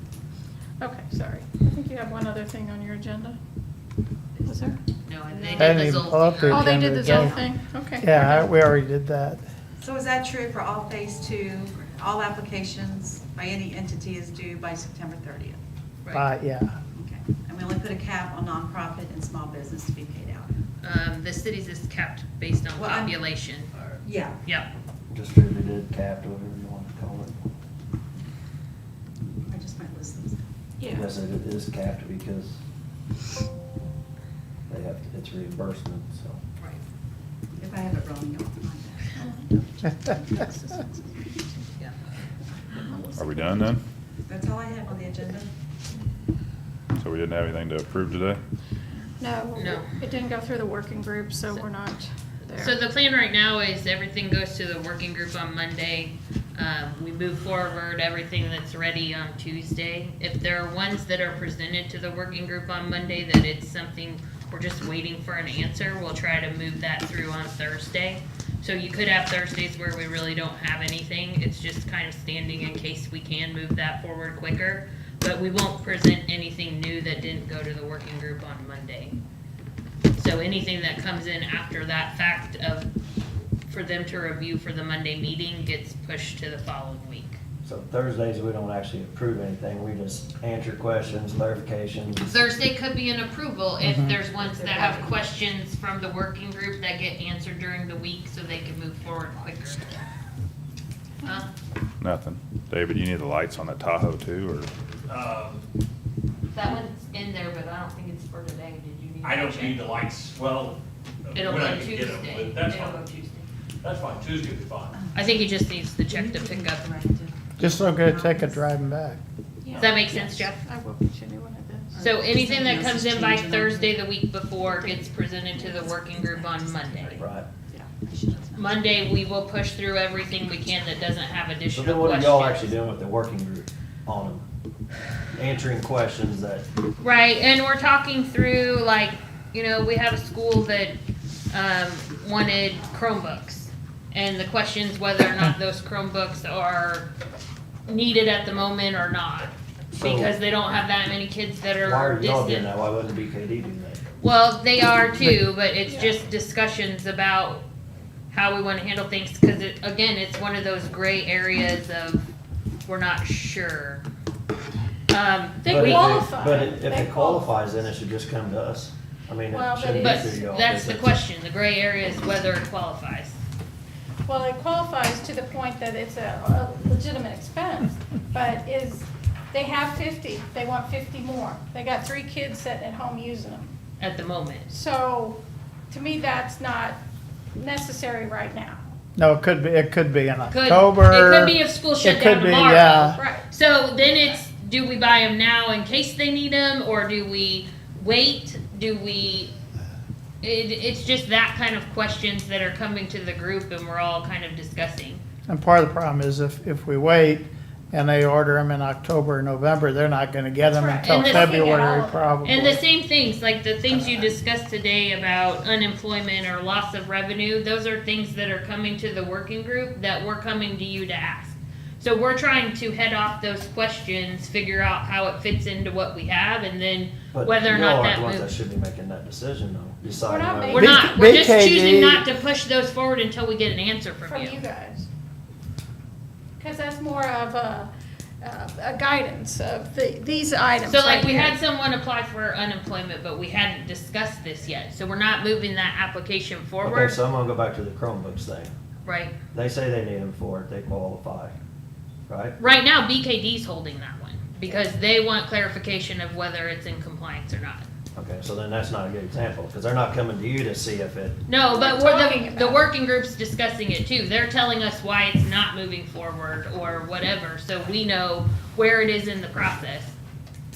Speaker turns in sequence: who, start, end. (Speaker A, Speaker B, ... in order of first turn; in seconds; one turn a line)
Speaker A: 0.8-3.4
Speaker A: 4.4-4.8
Speaker B: 5.0-6.9
Speaker C: 5.3-5.7
Speaker D: 5.5-7.4
Speaker A: 6.5-8.5
Speaker D: 8.0-9.4
Speaker C: 9.8-15.6
Speaker D: 16.1-16.8
Speaker C: 16.9-20.5
Speaker B: 20.8-23.7
Speaker C: 22.7-23.1
Speaker C: 24.0-24.4
Speaker E: 25.1-27.4
Speaker C: 29.5-31.1
Speaker E: 30.9-32.6
Speaker E: 34.7-36.4
Speaker C: 37.6-41.7
Speaker C: 42.7-43.7
Speaker F: 43.1-43.8
Speaker C: 44.3-45.5
Speaker F: 47.0-48.4
Speaker A: 49.2-52.8
Speaker B: 49.5-49.9
Speaker B: 52.5-79.2
Speaker B: 80.1-82.9
Speaker B: 83.7-87.4
Speaker E: 87.6-92.3
Speaker B: 92.2-99.8
Speaker D: 93.8-94.2
Speaker B: 101.2-101.5
Speaker F: 102.0-104.7
Speaker G: 105.0-105.7
Speaker B: 106.5-109.8
Speaker G: 109.2-113.1
Speaker B: 111.3-113.4
Speaker G: 113.8-115.0
Speaker C: 114.9-115.5
Speaker B: 115.1-116.9
Speaker C: 116.1-118.7
Speaker D: 117.6-119.2
Speaker A: 119.6-122.0
Speaker B: 119.8-120.6
Speaker C: 121.9-124.1
Speaker B: 122.0-127.2
Speaker C: 125.6-129.0
Speaker E: 127.2-127.5
Speaker B: 128.5-132.7
Speaker E: 131.8-134.4
Speaker E: 135.3-136.6
Speaker B: 137.0-140.9
Speaker B: 141.5-147.1
Speaker B: 147.8-152.7
Speaker E: 149.9-150.3
Speaker E: 151.8-154.0
Speaker B: 154.2-157.6
Speaker A: 155.9-156.1
Speaker B: 158.3-162.3
Speaker B: 162.8-164.0
Speaker B: 165.1-166.3
Speaker A: 165.6-167.6
Speaker E: 165.7-171.1
Speaker A: 169.5-170.4
Speaker B: 170.0-173.4
Speaker A: 174.2-183.7
Speaker B: 184.0-184.7
Speaker A: 184.7-185.4
Speaker A: 185.9-187.0
Speaker A: 187.5-188.9
Speaker D: 189.2-193.2
Speaker B: 190.5-199.5
Speaker A: 193.2-193.4
Speaker B: 200.4-205.2
Speaker D: 205.5-212.8
Speaker A: 210.7-212.2
Speaker B: 211.0-211.9
Speaker B: 212.4-228.6
Speaker E: 213.9-214.2
Speaker E: 227.3-231.2
Speaker A: 230.2-231.1
Speaker B: 230.7-234.6
Speaker D: 230.8-232.2
Speaker A: 234.2-235.1
Speaker A: 236.6-237.9
Speaker A: 238.4-241.6
Speaker B: 240.8-247.2
Speaker E: 246.8-248.7
Speaker B: 249.0-249.3
Speaker E: 249.5-251.5
Speaker E: 252.3-252.6
Speaker B: 252.6-257.9
Speaker E: 258.1-261.4
Speaker B: 261.5-270.1
Speaker A: 261.6-262.9